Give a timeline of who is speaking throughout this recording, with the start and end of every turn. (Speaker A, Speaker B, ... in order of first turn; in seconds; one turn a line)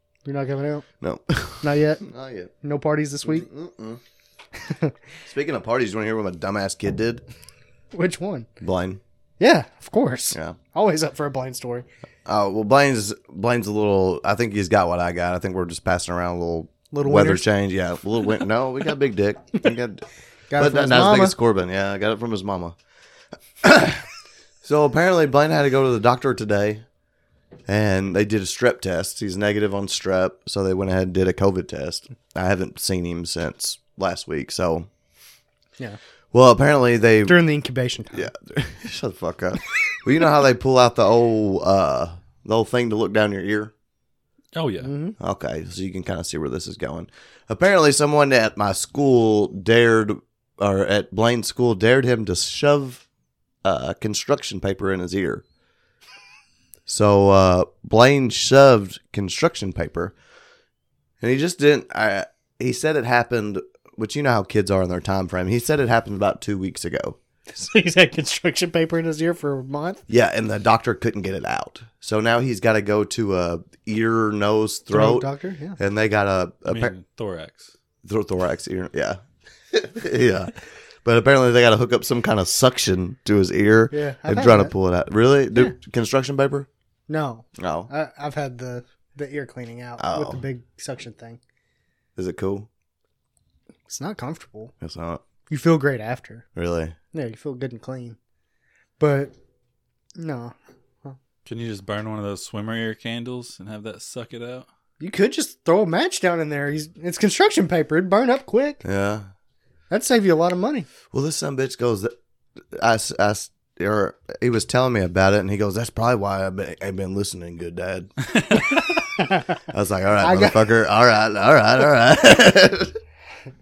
Speaker A: 0.2-0.9
Speaker B: 1.0-2.5
Speaker A: 1.6-2.0
Speaker A: 2.6-3.5
Speaker B: 3.2-4.0
Speaker A: 4.6-4.9
Speaker B: 5.3-7.2
Speaker A: 7.9-8.5
Speaker B: 8.6-9.0
Speaker A: 9.4-11.9
Speaker B: 10.3-10.6
Speaker B: 12.3-20.0
Speaker A: 16.9-17.5
Speaker A: 20.5-21.4
Speaker B: 20.6-22.8
Speaker B: 23.6-24.1
Speaker B: 24.6-26.8
Speaker B: 27.7-34.9
Speaker B: 36.3-37.4
Speaker A: 37.3-38.3
Speaker B: 38.1-43.7
Speaker C: 44.5-44.9
Speaker A: 44.8-45.2
Speaker B: 45.2-53.0
Speaker B: 53.6-55.4
Speaker B: 56.9-60.1
Speaker B: 61.2-67.2
Speaker A: 67.5-70.0
Speaker B: 70.1-75.3
Speaker A: 74.9-75.8
Speaker B: 75.8-76.9
Speaker C: 76.7-77.7
Speaker B: 78.0-79.2
Speaker B: 79.7-86.7
Speaker A: 83.9-84.7
Speaker A: 87.1-91.4
Speaker B: 87.6-87.9
Speaker B: 90.0-90.4
Speaker B: 92.2-92.7
Speaker A: 93.9-94.7
Speaker B: 94.8-95.2
Speaker A: 95.5-96.5
Speaker B: 96.5-97.0
Speaker A: 97.1-98.2
Speaker A: 99.0-99.3
Speaker A: 100.2-101.2
Speaker C: 101.5-104.7
Speaker A: 105.0-108.8
Speaker B: 108.8-109.3
Speaker A: 109.9-110.9
Speaker B: 111.1-112.1
Speaker B: 112.7-118.1
Speaker A: 119.2-119.6
Speaker B: 119.7-123.0
Speaker A: 120.2-120.6